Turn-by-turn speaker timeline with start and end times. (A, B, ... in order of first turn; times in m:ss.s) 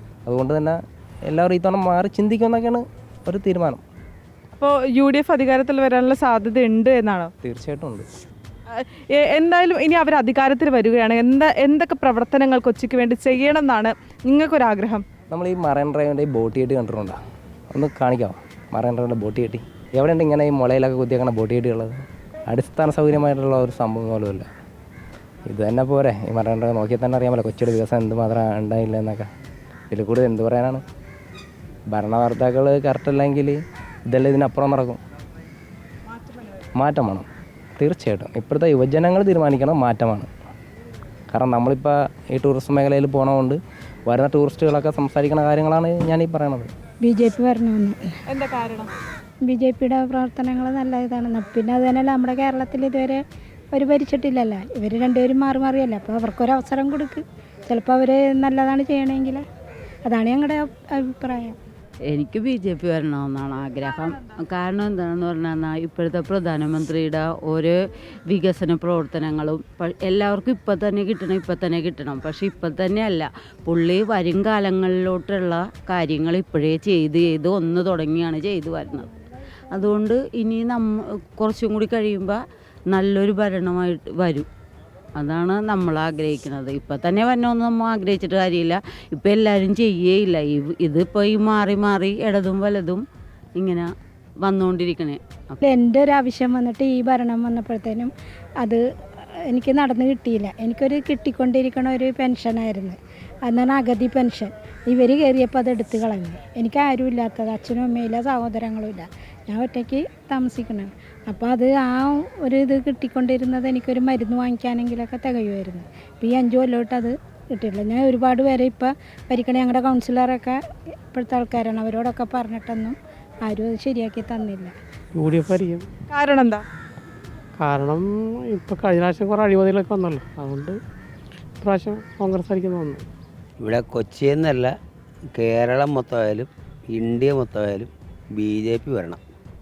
0:00.2-0:03.8 A
0:04.6-0:07.3 B
0:07.4-0:08.0 A
0:08.7-0:15.0 B
0:15.3-0:17.2 A
0:17.7-0:22.0 A
0:22.5-0:24.4 A
0:25.5-0:29.3 A
0:29.9-0:30.8 A
0:31.9-0:35.0 A
0:36.8-0:37.3 A
0:37.8-0:40.3 A
0:41.3-0:46.7 A
0:47.0-0:48.0 C
0:48.3-0:48.9 B
0:49.4-0:53.2 C
0:53.7-0:59.4 C
1:00.0-1:01.6 C
1:02.0-1:19.1 D
1:19.7-1:24.5 D
1:25.2-1:33.0 D
1:33.6-1:33.9 D
1:34.4-1:35.5 D
1:35.6-1:38.1 C
1:39.5-2:00.6 C
2:01.1-2:04.7 C
2:05.1-2:05.9 E
2:06.1-2:06.6 B
2:07.6-2:10.8 E
2:11.6-2:13.0 E
2:13.6-2:14.7 F
2:15.4-2:19.2 F